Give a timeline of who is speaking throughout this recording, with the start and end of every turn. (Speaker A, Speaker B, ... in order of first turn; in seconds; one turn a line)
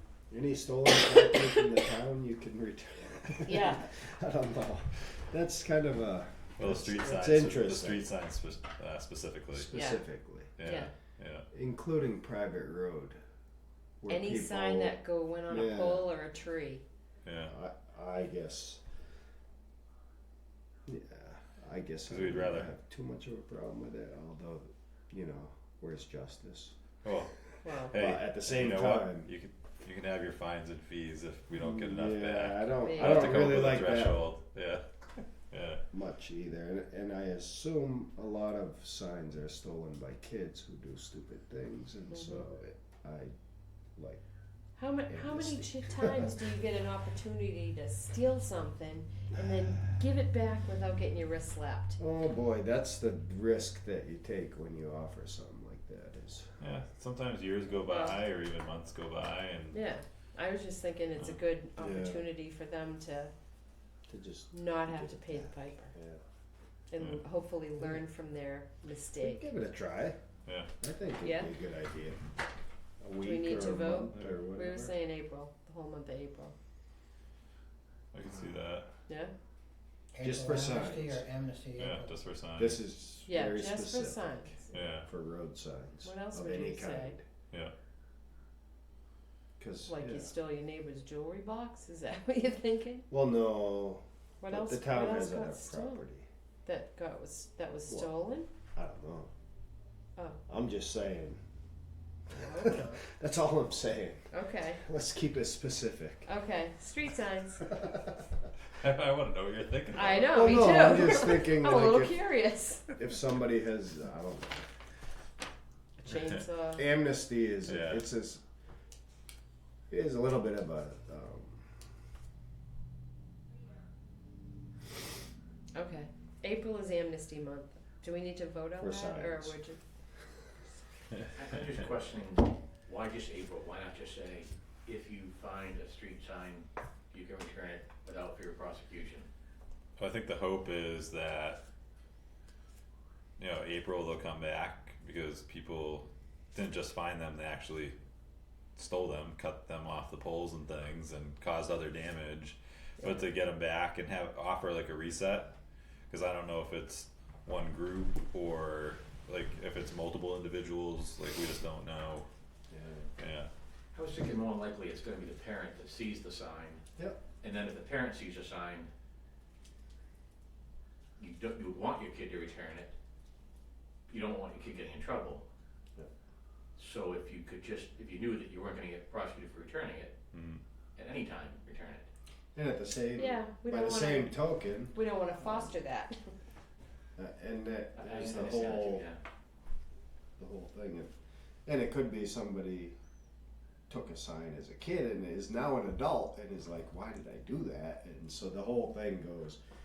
Speaker A: 0.3-8.0
Speaker B: 3.5-3.8
Speaker C: 6.6-9.7
Speaker A: 9.5-10.5
Speaker B: 9.7-10.0
Speaker C: 10.6-11.4
Speaker B: 10.6-10.9
Speaker A: 11.5-13.2
Speaker A: 14.0-15.0
Speaker B: 14.1-16.8
Speaker A: 15.5-16.1
Speaker C: 17.2-17.5
Speaker A: 17.5-18.8
Speaker A: 20.9-26.7
Speaker C: 22.1-22.7
Speaker C: 27.0-27.3
Speaker B: 27.6-27.9
Speaker A: 27.7-29.3
Speaker C: 27.9-35.8
Speaker A: 31.5-34.2
Speaker B: 32.8-33.3
Speaker A: 35.9-43.3
Speaker B: 42.1-42.4
Speaker B: 44.8-52.0
Speaker A: 45.1-46.4
Speaker A: 52.0-56.6
Speaker C: 56.6-59.8
Speaker B: 57.9-58.2
Speaker B: 59.7-63.3
Speaker A: 61.8-62.3
Speaker A: 64.1-66.2
Speaker B: 64.5-65.9
Speaker B: 66.9-69.5
Speaker A: 69.2-70.2
Speaker A: 70.8-72.2
Speaker B: 71.2-71.5
Speaker A: 73.0-74.9
Speaker B: 73.2-76.5
Speaker C: 78.1-78.9
Speaker D: 80.1-82.1
Speaker A: 80.2-81.2
Speaker C: 81.7-82.8
Speaker A: 82.6-87.2
Speaker B: 83.3-84.7
Speaker C: 84.7-85.1
Speaker B: 86.0-87.1
Speaker A: 89.6-90.3
Speaker B: 89.9-93.0
Speaker A: 93.1-96.2
Speaker B: 94.4-96.0
Speaker B: 96.7-98.5
Speaker A: 98.7-99.3
Speaker A: 100.5-101.4
Speaker A: 102.3-104.2
Speaker D: 102.4-102.9
Speaker B: 104.3-104.8
Speaker A: 104.8-106.3
Speaker B: 106.2-107.7
Speaker A: 107.7-108.0
Speaker C: 108.7-110.8
Speaker B: 109.9-113.0
Speaker A: 110.1-112.2
Speaker A: 112.9-114.6
Speaker B: 116.0-116.8
Speaker A: 116.8-118.4
Speaker C: 117.7-118.0
Speaker A: 119.9-121.7
Speaker B: 125.7-129.8
Speaker A: 128.8-129.6
Speaker E: 131.3-139.3
Speaker C: 140.0-141.6
Speaker C: 143.4-147.9
Speaker C: 148.8-155.5
Speaker C: 156.1-162.2
Speaker A: 162.7-163.1
Speaker C: 163.2-163.5
Speaker E: 163.9-166.8
Speaker E: 167.4-168.9
Speaker E: 171.2-172.9
Speaker E: 174.1-175.4
Speaker E: 176.8-180.2
Speaker C: 180.3-180.6
Speaker E: 180.9-182.1
Speaker A: 182.5-185.7
Speaker B: 183.2-184.4
Speaker B: 184.9-186.3
Speaker A: 187.2-189.1
Speaker E: 187.9-189.2
Speaker A: 190.4-191.1
Speaker A: 191.6-193.0
Speaker A: 193.9-199.6